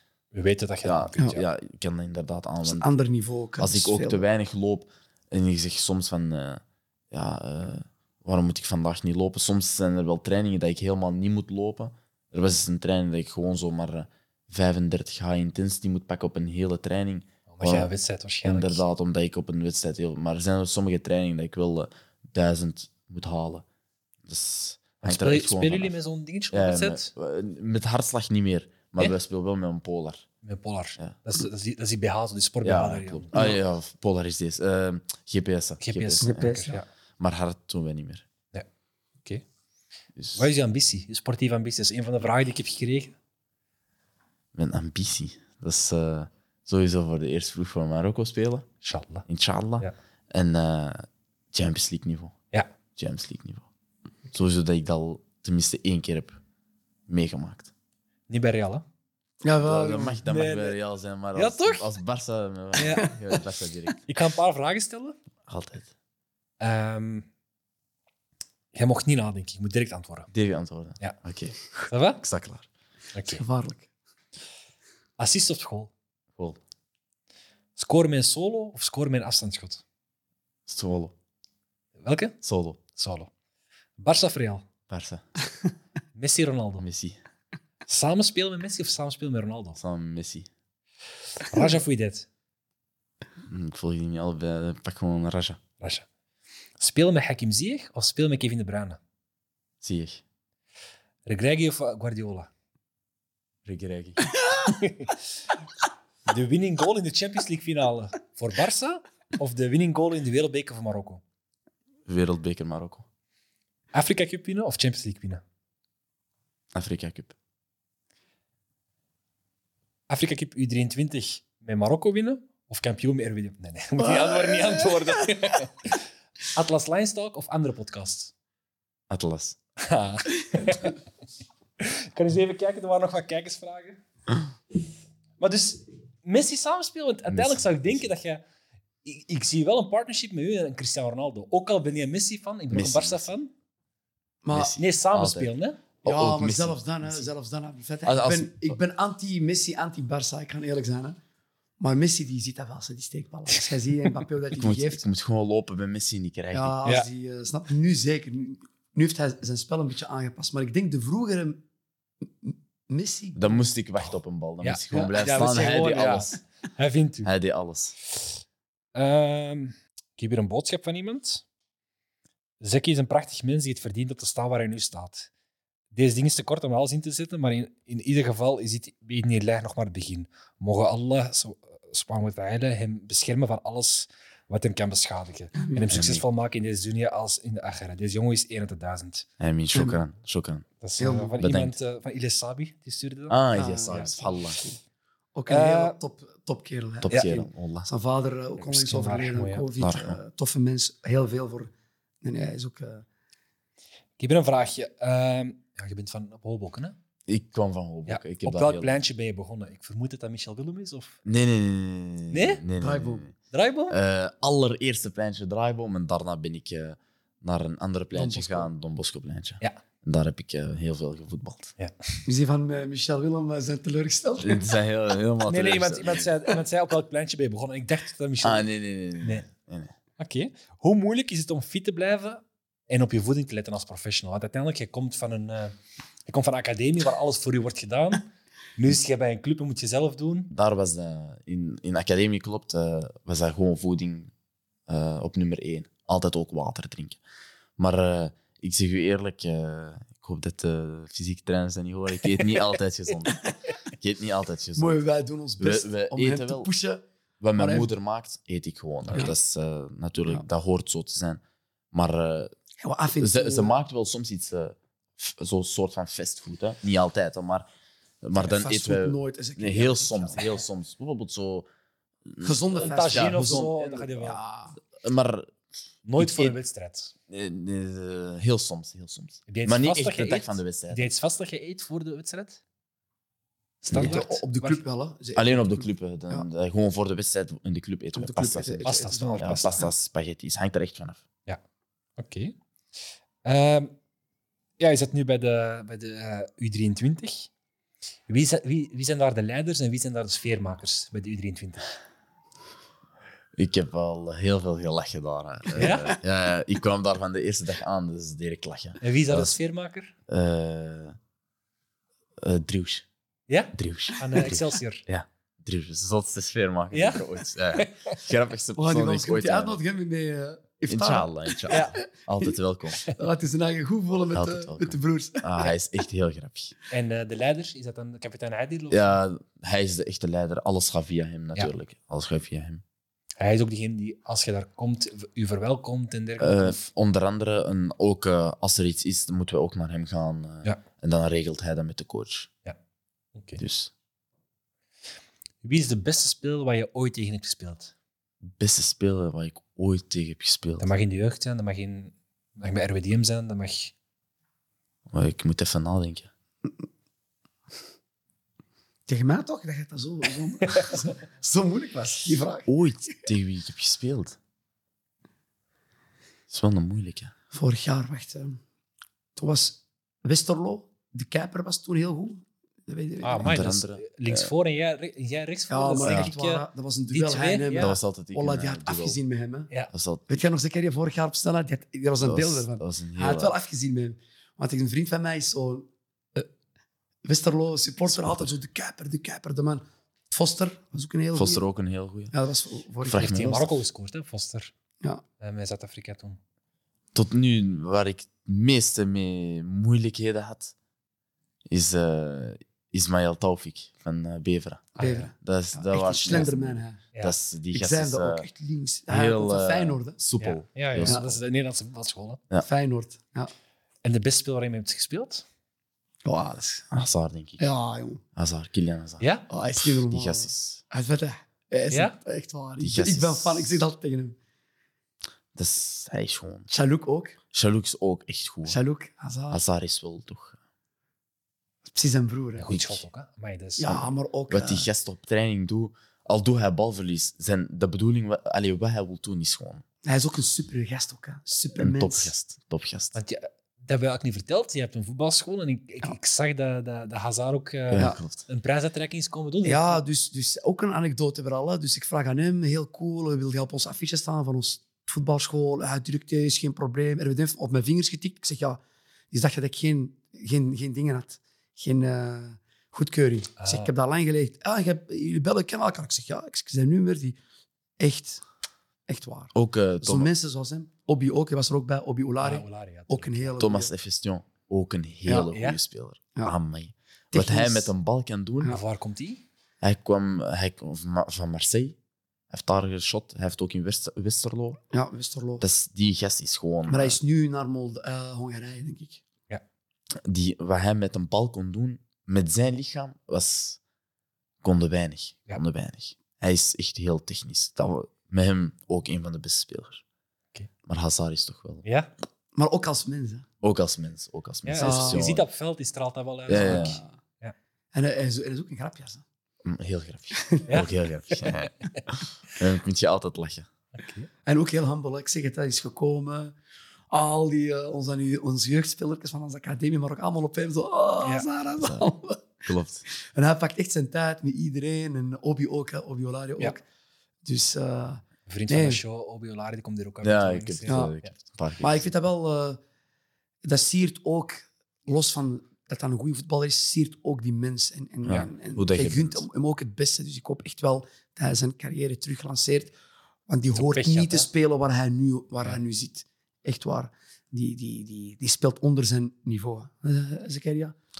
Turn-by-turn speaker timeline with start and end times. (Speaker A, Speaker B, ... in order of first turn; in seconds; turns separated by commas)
Speaker A: 0.3-1.4, Speaker B: 0.8-2.9, Speaker C: 2.6-4.2, Speaker B: 3.6-17.9, Speaker A: 17.5-18.8, Speaker B: 18.4-23.6, Speaker B: 24.3-25.9, Speaker A: 25.0-27.1, Speaker B: 26.5-30.3, Speaker A: 30.4-33.4, Speaker B: 32.6-38.2, Speaker C: 33.3-33.6, Speaker A: 35.8-36.9, Speaker C: 36.2-36.8, Speaker B: 40.2-40.5, Speaker A: 40.4-43.1, Speaker B: 44.5-48.7, Speaker A: 48.8-49.3, Speaker B: 49.3-52.3, Speaker B: 53.0-53.7, Speaker B: 54.3-56.4, Speaker B: 57.1-57.7, Speaker A: 58.3-58.9, Speaker C: 59.4-60.2, Speaker B: 59.6-64.0, Speaker A: 60.3-60.8, Speaker A: 61.4-61.9, Speaker A: 62.8-63.2, Speaker A: 64.1-65.2, Speaker B: 65.5-65.9, Speaker A: 66.6-67.3, Speaker A: 68.7-70.3, Speaker B: 70.3-71.6, Speaker A: 71.9-72.2, Speaker B: 72.2-72.7, Speaker A: 73.2-73.4, Speaker C: 73.3-73.9, Speaker A: 75.2-75.9, Speaker A: 77.8-79.8, Speaker B: 80.7-81.1, Speaker A: 82.0-82.4, Speaker B: 82.4-82.8, Speaker A: 83.0-83.3, Speaker A: 84.0-84.7, Speaker B: 84.9-85.2, Speaker A: 86.2-86.8, Speaker B: 86.8-87.2, Speaker A: 87.9-89.8, Speaker B: 89.8-90.5, Speaker A: 91.5-92.3, Speaker B: 93.5-95.6, Speaker A: 95.8-96.1, Speaker A: 96.8-99.0, Speaker B: 99.8-100.2, Speaker A: 101.3-102.5, Speaker B: 103.7-104.2, Speaker A: 104.6-105.2, Speaker A: 106.3-111.2, Speaker B: 112.1-113.1, Speaker A: 113.9-115.4, Speaker B: 116.7-117.3, Speaker A: 120.1-128.3, Speaker C: 124.4-125.0, Speaker B: 129.1-129.6, Speaker A: 129.8-131.0, Speaker A: 131.8-134.0, Speaker A: 135.4-138.4, Speaker B: 137.3-138.1, Speaker A: 139.0-143.5, Speaker B: 142.7-143.3, Speaker C: 144.4-144.8, Speaker B: 144.5-145.5, Speaker A: 144.8-145.8, Speaker B: 146.0-147.3, Speaker C: 146.1-151.2, Speaker B: 148.1-148.8, Speaker C: 151.8-155.1, Speaker B: 154.6-156.8, Speaker C: 156.5-161.6, Speaker C: 162.2-163.7, Speaker B: 163.4-166.4, Speaker A: 164.6-167.3, Speaker B: 167.2-167.9, Speaker A: 168.9-171.4, Speaker A: 172.6-175.3, Speaker A: 175.9-189.3, Speaker C: 185.6-186.1, Speaker B: 185.9-186.2, Speaker B: 189.4-190.7, Speaker C: 189.7-190.0, Speaker A: 190.8-194.5, Speaker C: 191.0-191.4, Speaker B: 191.4-191.8, Speaker B: 193.3-194.6, Speaker C: 193.5-194.8, Speaker C: 195.3-201.7, Speaker A: 195.5-196.0, Speaker B: 197.0-197.9, Speaker A: 198.6-199.7, Speaker B: 199.8-200.2, Speaker C: 202.2-203.1, Speaker A: 204.2-206.9, Speaker B: 207.3-209.0, Speaker A: 208.1-211.2, Speaker B: 211.2-213.3, Speaker A: 212.3-212.6, Speaker C: 212.8-213.3, Speaker A: 213.5-214.0, Speaker B: 213.9-221.7, Speaker C: 218.1-218.7, Speaker A: 221.8-222.2, Speaker C: 222.3-224.7, Speaker B: 224.4-226.3, Speaker A: 225.4-228.7, Speaker B: 228.4-229.9, Speaker A: 229.2-229.5, Speaker A: 230.2-238.3, Speaker A: 238.8-240.5, Speaker B: 240.5-244.3, Speaker B: 244.9-247.2, Speaker B: 247.8-255.0, Speaker C: 254.8-257.0, Speaker B: 255.6-256.7, Speaker B: 257.4-261.4, Speaker C: 257.6-257.9, Speaker C: 259.1-259.4, Speaker B: 261.9-262.5, Speaker C: 262.8-263.8, Speaker B: 263.2-267.7, Speaker B: 268.2-271.7, Speaker C: 268.4-270.5, Speaker B: 272.2-274.3, Speaker C: 272.4-274.7, Speaker A: 272.8-274.4, Speaker B: 275.0-275.6, Speaker A: 276.1-277.1, Speaker B: 276.2-276.6, Speaker B: 277.3-281.1, Speaker A: 279.5-282.6, Speaker C: 283.8-286.5, Speaker A: 283.9-284.8, Speaker B: 283.9-284.2, Speaker B: 285.4-291.2, Speaker C: 288.1-289.9, Speaker A: 288.8-289.9, Speaker A: 292.2-292.6, Speaker A: 293.4-293.9, Speaker A: 294.8-297.5, Speaker A: 298.3-301.9, Speaker B: 303.6-309.6, Speaker A: 305.8-306.2, Speaker A: 309.0-310.1, Speaker B: 310.3-311.2, Speaker B: 312.4-313.1, Speaker A: 313.5-315.0, Speaker B: 313.7-319.8, Speaker A: 316.9-318.2, Speaker C: 318.8-321.9, Speaker B: 320.9-323.1, Speaker A: 321.7-322.0, Speaker C: 323.1-325.7, Speaker B: 324.3-326.8, Speaker A: 326.9-329.2, Speaker B: 328.9-332.8, Speaker A: 333.4-336.9, Speaker B: 336.4-342.5, Speaker A: 343.4-343.6, Speaker B: 343.6-343.9, Speaker A: 345.6-347.9, Speaker B: 348.5-350.9, Speaker A: 350.8-353.9, Speaker B: 355.1-356.3, Speaker C: 359.1-363.3, Speaker A: 360.6-361.1, Speaker B: 362.7-364.4, Speaker B: 366.5-367.3, Speaker C: 367.5-368.6, Speaker C: 369.4-373.7, Speaker A: 373.2-378.0, Speaker B: 373.4-374.5, Speaker C: 375.7-379.7, Speaker B: 376.0-376.3, Speaker B: 377.8-379.2, Speaker B: 379.9-380.2, Speaker C: 380.3-386.5, Speaker B: 382.2-383.6, Speaker C: 387.2-391.6, Speaker B: 388.1-388.5, Speaker B: 391.3-392.3, Speaker C: 392.3-393.7, Speaker B: 393.0-393.7, Speaker A: 393.1-394.7, Speaker A: 395.4-396.4, Speaker B: 397.1-400.7, Speaker B: 401.7-408.5, Speaker A: 405.0-405.3, Speaker C: 405.0-407.1, Speaker C: 407.7-410.2, Speaker B: 409.1-411.3, Speaker A: 410.4-412.4, Speaker C: 411.0-411.3, Speaker C: 412.6-413.5, Speaker A: 414.0-415.4, Speaker C: 416.2-416.9, Speaker B: 416.9-417.6, Speaker C: 417.6-418.2, Speaker B: 418.4-419.2, Speaker A: 419.2-419.5, Speaker C: 419.5-424.4, Speaker B: 419.8-420.8, Speaker A: 421.9-422.2, Speaker B: 422.8-423.8, Speaker B: 425.6-426.7, Speaker C: 426.7-427.4, Speaker B: 427.5-428.8, Speaker C: 428.7-429.6, Speaker B: 429.5-430.6, Speaker C: 431.9-432.7, Speaker A: 432.6-433.9, Speaker B: 432.7-433.0, Speaker C: 433.8-434.9, Speaker B: 433.9-439.8, Speaker C: 440.0-442.3, Speaker B: 441.8-443.2, Speaker A: 443.1-450.0, Speaker B: 447.9-448.4, Speaker C: 449.6-458.8, Speaker C: 459.3-467.4, Speaker A: 463.6-463.9, Speaker C: 468.0-468.4, Speaker C: 469.1-473.9, Speaker B: 469.5-470.3, Speaker A: 472.4-473.5, Speaker B: 473.6-478.8, Speaker C: 475.3-475.5, Speaker A: 475.5-475.8, Speaker C: 477.3-477.9, Speaker A: 478.7-479.4, Speaker B: 479.8-482.0, Speaker B: 482.5-484.8, Speaker C: 484.9-485.6, Speaker B: 485.6-487.2, Speaker C: 486.9-489.2, Speaker B: 490.2-493.8, Speaker B: 494.6-500.0, Speaker B: 500.9-501.8, Speaker A: 501.8-502.1, Speaker C: 502.6-503.5, Speaker B: 503.6-505.5, Speaker A: 504.6-507.6, Speaker C: 504.8-505.3, Speaker C: 506.5-507.1, Speaker B: 506.5-507.0, Speaker C: 507.9-509.2, Speaker B: 509.6-513.7, Speaker C: 510.3-510.8, Speaker A: 510.7-511.4, Speaker A: 514.0-514.3, Speaker C: 514.5-516.5, Speaker C: 517.1-522.6, Speaker A: 521.2-521.5, Speaker B: 521.8-522.1, Speaker B: 522.6-523.0, Speaker C: 523.2-526.8, Speaker C: 527.5-529.0, Speaker A: 528.5-531.3, Speaker B: 530.2-532.1, Speaker C: 530.9-531.1, Speaker C: 531.8-532.8, Speaker C: 533.6-543.0, Speaker B: 538.2-539.4, Speaker C: 543.5-551.0, Speaker A: 543.8-544.5